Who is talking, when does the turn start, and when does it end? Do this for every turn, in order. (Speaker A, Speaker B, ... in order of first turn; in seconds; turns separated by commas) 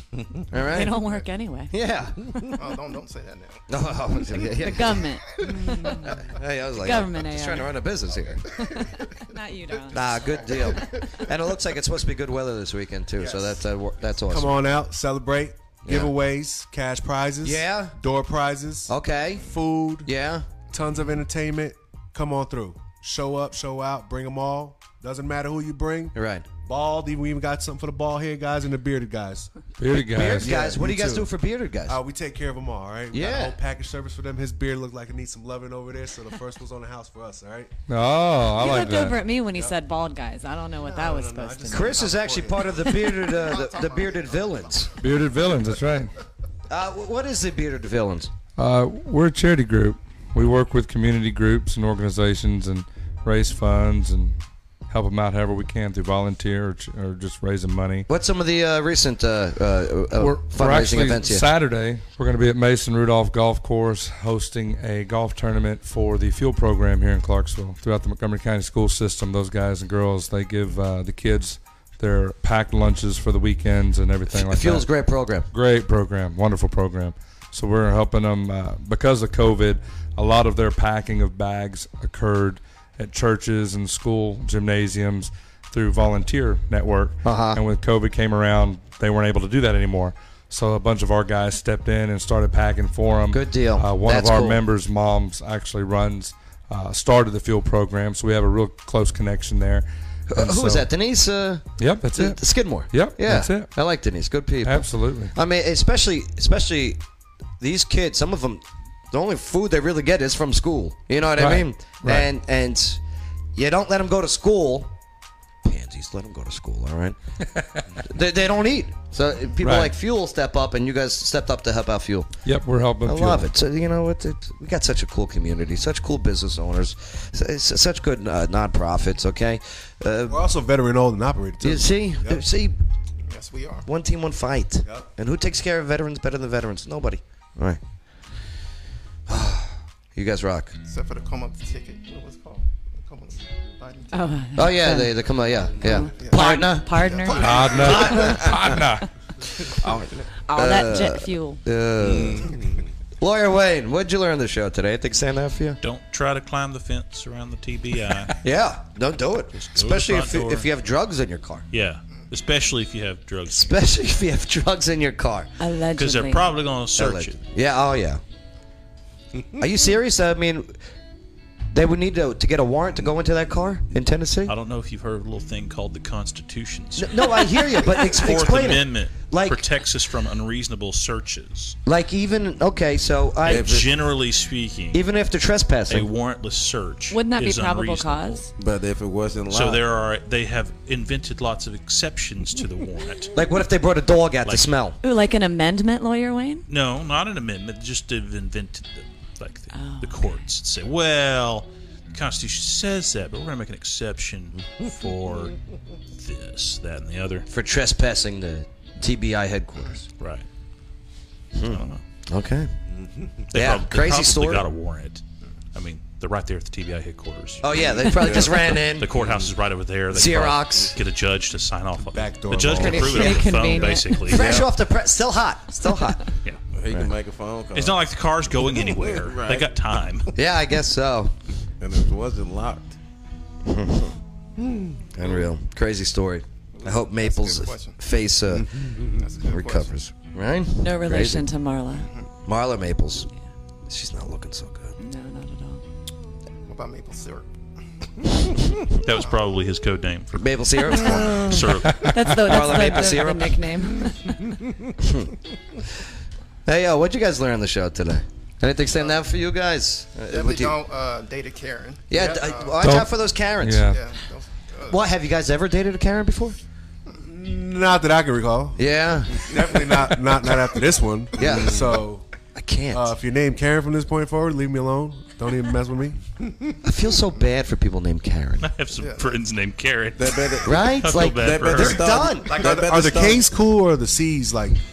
Speaker A: 0.5-1.0, Speaker B: 0.6-1.7, Speaker A: 1.7-2.2, Speaker C: 2.6-3.6, Speaker A: 3.7-5.1, Speaker B: 4.6-6.1, Speaker C: 5.4-5.7, Speaker A: 5.7-8.5, Speaker B: 6.8-7.7, Speaker B: 8.5-10.1, Speaker A: 9.9-14.7, Speaker C: 10.2-11.2, Speaker D: 13.2-13.6, Speaker D: 14.3-20.1, Speaker A: 15.8-16.1, Speaker A: 17.4-18.0, Speaker A: 18.9-19.5, Speaker A: 20.1-20.5, Speaker D: 20.7-29.5, Speaker A: 26.1-26.5, Speaker E: 29.8-30.6, Speaker A: 30.1-32.0, Speaker D: 30.2-31.3, Speaker D: 31.9-37.7, Speaker A: 33.1-33.6, Speaker E: 37.9-39.2, Speaker B: 38.6-42.1, Speaker D: 40.8-43.0, Speaker A: 41.7-44.9, Speaker C: 43.3-44.9, Speaker E: 45.0-46.1, Speaker A: 46.7-48.3, Speaker E: 48.6-54.4, Speaker E: 54.9-58.1, Speaker A: 58.1-61.5, Speaker E: 60.2-74.9, Speaker A: 74.3-75.5, Speaker E: 75.5-100.9, Speaker A: 87.2-87.6, Speaker A: 93.3-94.6, Speaker A: 100.3-107.0, Speaker E: 101.8-103.7, Speaker E: 104.6-105.3, Speaker A: 107.6-113.0, Speaker E: 111.4-112.3, Speaker A: 113.5-114.9, Speaker A: 115.6-117.2, Speaker A: 118.0-122.4, Speaker E: 119.6-119.9, Speaker E: 122.5-123.4, Speaker A: 123.0-130.5, Speaker D: 130.3-132.4, Speaker A: 131.6-132.8, Speaker C: 133.3-133.9, Speaker A: 133.8-137.8, Speaker A: 139.3-140.8, Speaker C: 140.9-144.3, Speaker B: 144.1-145.2, Speaker A: 144.6-148.6, Speaker B: 145.8-147.6, Speaker C: 146.2-146.6, Speaker C: 147.2-148.2, Speaker E: 147.3-149.1, Speaker F: 148.2-148.9, Speaker F: 149.7-150.2, Speaker B: 150.5-151.6, Speaker A: 150.5-152.6, Speaker F: 152.0-152.9, Speaker A: 153.2-155.8, Speaker G: 155.8-158.4, Speaker A: 158.4-161.7, Speaker G: 159.6-160.7, Speaker G: 161.7-163.8, Speaker A: 163.5-165.5, Speaker B: 165.6-166.5, Speaker G: 166.0-167.4, Speaker A: 167.0-168.2, Speaker A: 169.6-170.8, Speaker A: 171.7-174.5, Speaker G: 174.5-181.8, Speaker A: 177.0-179.7, Speaker A: 181.9-183.8, Speaker F: 183.4-183.9, Speaker G: 183.4-185.0, Speaker A: 184.9-186.1, Speaker G: 185.9-188.5, Speaker B: 187.1-188.5, Speaker F: 188.6-189.8, Speaker G: 189.5-193.3, Speaker A: 193.3-195.0, Speaker G: 194.5-194.7, Speaker B: 195.0-196.7, Speaker G: 196.7-205.6, Speaker B: 199.7-200.4, Speaker G: 206.2-207.5, Speaker A: 207.5-210.0, Speaker G: 210.2-210.4, Speaker A: 211.6-212.7, Speaker G: 211.7-212.0, Speaker F: 212.9-213.4, Speaker G: 213.5-215.2, Speaker A: 213.5-214.7, Speaker G: 215.7-224.6, Speaker A: 217.6-219.1, Speaker F: 218.0-219.5, Speaker A: 220.1-221.0, Speaker D: 222.0-223.4, Speaker B: 222.7-224.2, Speaker A: 224.3-226.2, Speaker F: 224.3-224.7, Speaker F: 226.7-229.8, Speaker G: 227.7-230.3, Speaker A: 230.3-231.3, Speaker F: 231.8-233.0, Speaker A: 233.7-234.2, Speaker F: 234.6-235.1, Speaker A: 235.1-238.9, Speaker C: 236.7-238.0, Speaker F: 238.6-239.2, Speaker C: 239.2-239.9, Speaker A: 239.4-241.5, Speaker B: 240.8-242.1, Speaker C: 242.0-242.3, Speaker A: 242.5-243.3, Speaker A: 243.9-244.9, Speaker B: 245.0-245.8, Speaker C: 246.7-247.5, Speaker G: 249.0-252.1, Speaker C: 249.1-249.4, Speaker A: 250.3-251.7, Speaker B: 252.0-254.4, Speaker A: 252.3-253.6, Speaker A: 255.0-255.3, Speaker A: 256.7-260.8, Speaker C: 258.9-259.2, Speaker C: 260.3-262.9, Speaker A: 262.1-263.9, Speaker E: 262.8-264.0, Speaker C: 263.8-265.0, Speaker A: 264.9-266.6, Speaker D: 267.2-272.2, Speaker A: 268.8-269.9, Speaker A: 271.4-272.0, Speaker F: 271.4-272.0, Speaker A: 272.6-273.1, Speaker D: 272.9-276.2, Speaker A: 276.8-278.7, Speaker G: 278.6-282.0, Speaker C: 279.0-279.4, Speaker F: 280.2-283.6, Speaker A: 280.6-282.6, Speaker D: 282.5-284.8